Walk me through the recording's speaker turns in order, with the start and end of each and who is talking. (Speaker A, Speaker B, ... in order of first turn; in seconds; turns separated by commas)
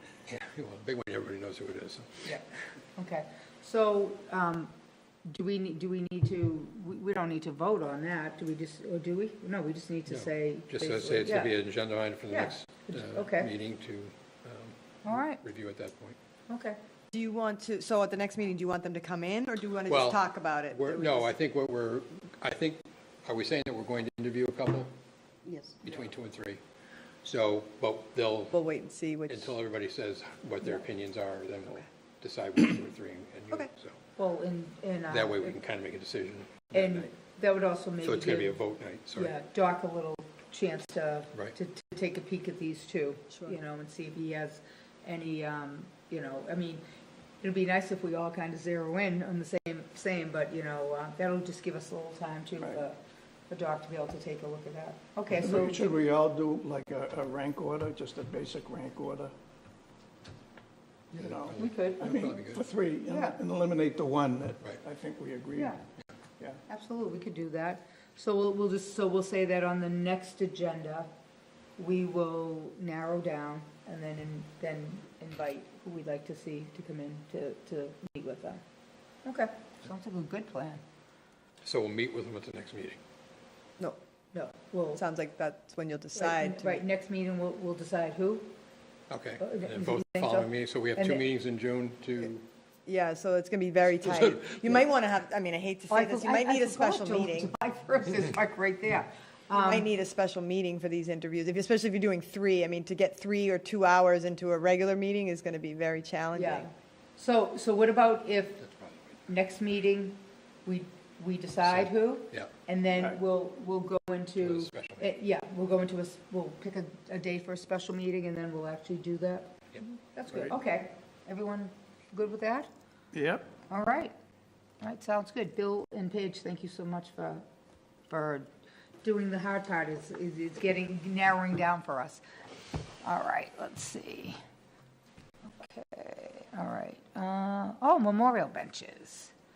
Speaker A: 0.3-2.3, Speaker B: 2.3-4.7, Speaker B: 5.2-11.6, Speaker A: 10.1-16.2, Speaker B: 12.3-13.5, Speaker B: 15.0-15.4, Speaker B: 16.5-16.8, Speaker C: 17.1-21.3, Speaker A: 19.9-24.9, Speaker C: 25.5-25.9, Speaker A: 25.8-26.6, Speaker A: 27.2-28.6, Speaker C: 28.5-29.6, Speaker A: 29.3-34.0, Speaker B: 34.2-35.6, Speaker A: 35.1-37.1, Speaker B: 36.7-38.6, Speaker A: 38.0-39.3, Speaker B: 39.1-46.8, Speaker C: 43.3-43.6, Speaker B: 47.4-55.9, Speaker D: 55.3-59.3, Speaker A: 61.1-62.6, Speaker D: 61.1-65.8, Speaker B: 61.5-62.4, Speaker B: 63.1-63.4, Speaker B: 65.5-65.8, Speaker B: 66.7-71.1, Speaker B: 71.8-78.6, Speaker B: 79.2-80.8, Speaker A: 81.6-83.0, Speaker B: 84.3-85.0, Speaker C: 85.0-86.8, Speaker B: 86.2-88.5, Speaker A: 89.1-92.5, Speaker B: 89.4-91.2, Speaker C: 92.9-97.5, Speaker A: 94.0-94.8, Speaker B: 95.9-99.9, Speaker C: 99.5-106.7, Speaker B: 106.3-108.6, Speaker A: 108.6-109.2, Speaker B: 109.3-119.6, Speaker A: 111.6-112.5, Speaker A: 114.4-115.1, Speaker B: 120.1-122.7, Speaker D: 123.1-123.5, Speaker B: 123.7-124.1, Speaker B: 124.8-127.4, Speaker B: 128.1-128.5, Speaker B: 129.0-132.2, Speaker B: 133.0-134.4, Speaker B: 135.4-139.3